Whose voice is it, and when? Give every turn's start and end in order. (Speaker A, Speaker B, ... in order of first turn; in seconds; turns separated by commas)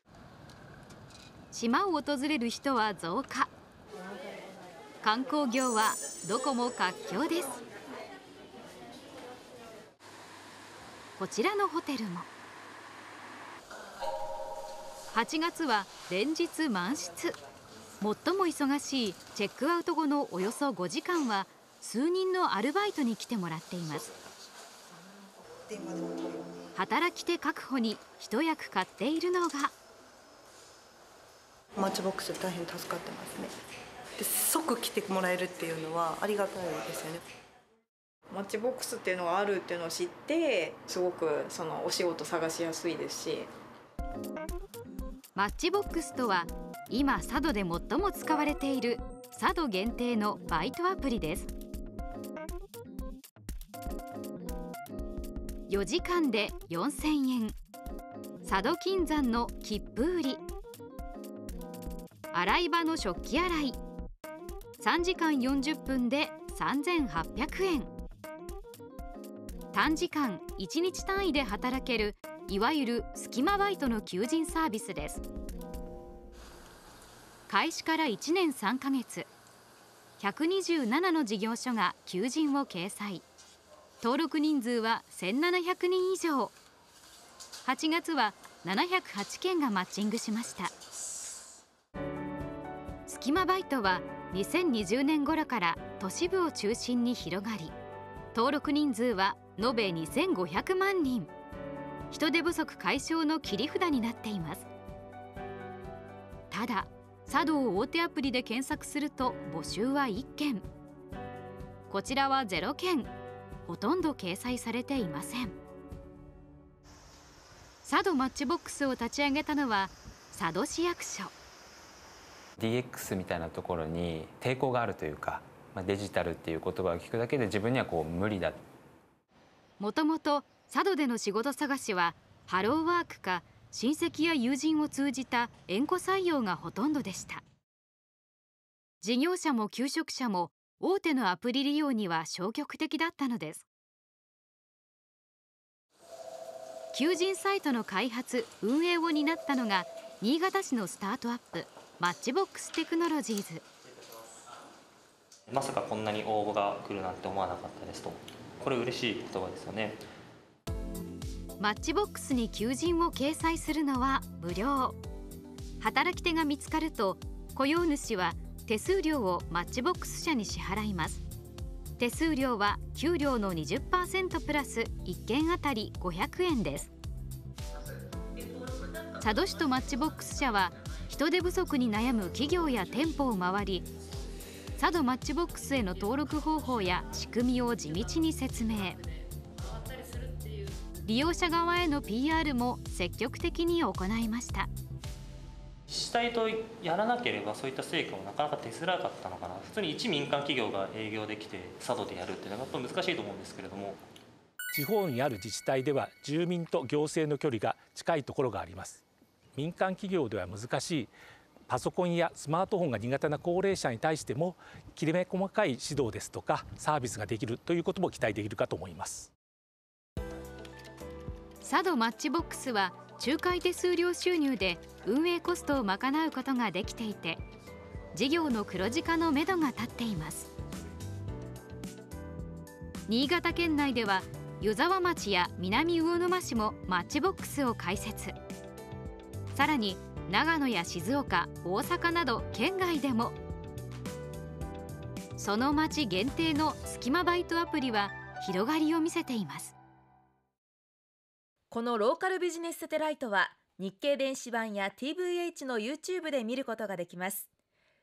Speaker A: 1.5-3.5, Speaker A: 5.0-7.6, Speaker A: 11.2-12.3, Speaker A: 15.1-17.3, Speaker A: 18.0-24.1, Speaker B: 25.7-26.5, Speaker A: 26.8-29.7, Speaker B: 31.8-33.5, Speaker B: 34.2-37.2, Speaker C: 38.3-43.5, Speaker A: 45.3-51.5, Speaker A: 55.7-57.5, Speaker A: 58.4-60.4, Speaker A: 62.3-63.8, Speaker A: 64.8-67.9, Speaker A: 69.7-75.2, Speaker A: 77.5-79.3, Speaker A: 80.2-83.2, Speaker A: 84.0-86.5, Speaker A: 87.6-90.7, Speaker A: 93.1-97.7, Speaker A: 98.3-101.3, Speaker A: 102.1-104.7, Speaker A: 106.5-110.6, Speaker A: 111.9-113.1, Speaker A: 113.7-115.5, Speaker A: 117.8-121.3, Speaker D: 122.6-128.6, Speaker A: 129.8-137.4, Speaker A: 139.0-143.7, Speaker A: 146.9-153.6, Speaker E: 155.5-160.0, Speaker A: 161.6-165.0, Speaker A: 165.8-171.2, Speaker A: 172.0-176.9, Speaker A: 179.2-183.9, Speaker A: 184.8-189.0, Speaker A: 191.0-194.7, Speaker E: 195.9-204.0, Speaker F: 204.7-209.0, Speaker F: 209.6-211.1, Speaker F: 211.7-219.3, Speaker A: 221.6-227.4, Speaker A: 228.1-230.5, Speaker A: 233.1-238.3, Speaker A: 239.5-243.3, Speaker A: 245.4-249.8, Speaker G: 251.7-257.4